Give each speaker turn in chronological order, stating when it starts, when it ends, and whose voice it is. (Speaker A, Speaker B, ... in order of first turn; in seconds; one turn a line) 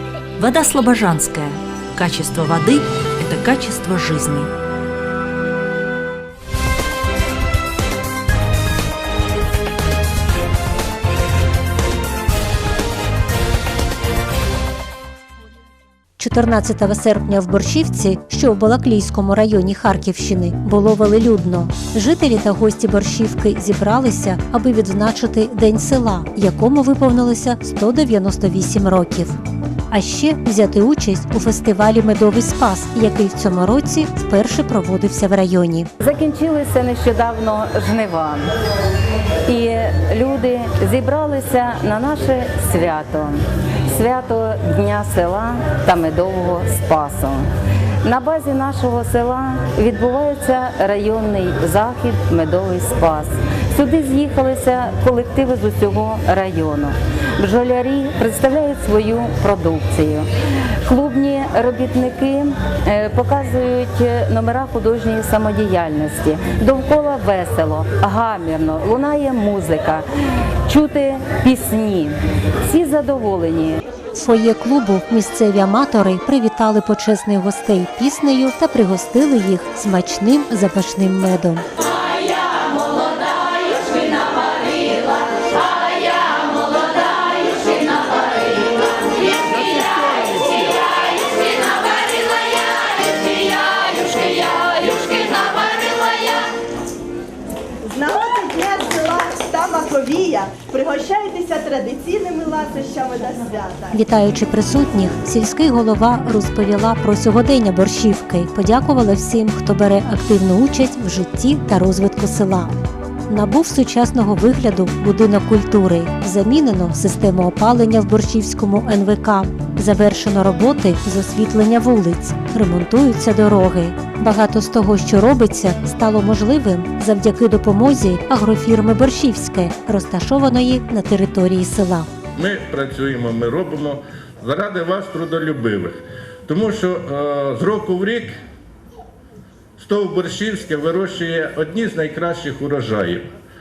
Speaker A: 0.4-4.5
Speaker B: 16.2-29.4
Speaker B: 29.9-35.9
Speaker C: 36.0-38.5
Speaker C: 39.5-47.5
Speaker C: 48.0-60.3
Speaker C: 60.8-70.0
Speaker C: 70.7-72.1
Speaker C: 72.7-73.8
Speaker B: 74.2-81.6
Speaker D: 98.0-103.8
Speaker B: 103.9-112.7
Speaker B: 113.3-132.1
Speaker E: 132.4-138.3
Speaker E: 139.8-143.3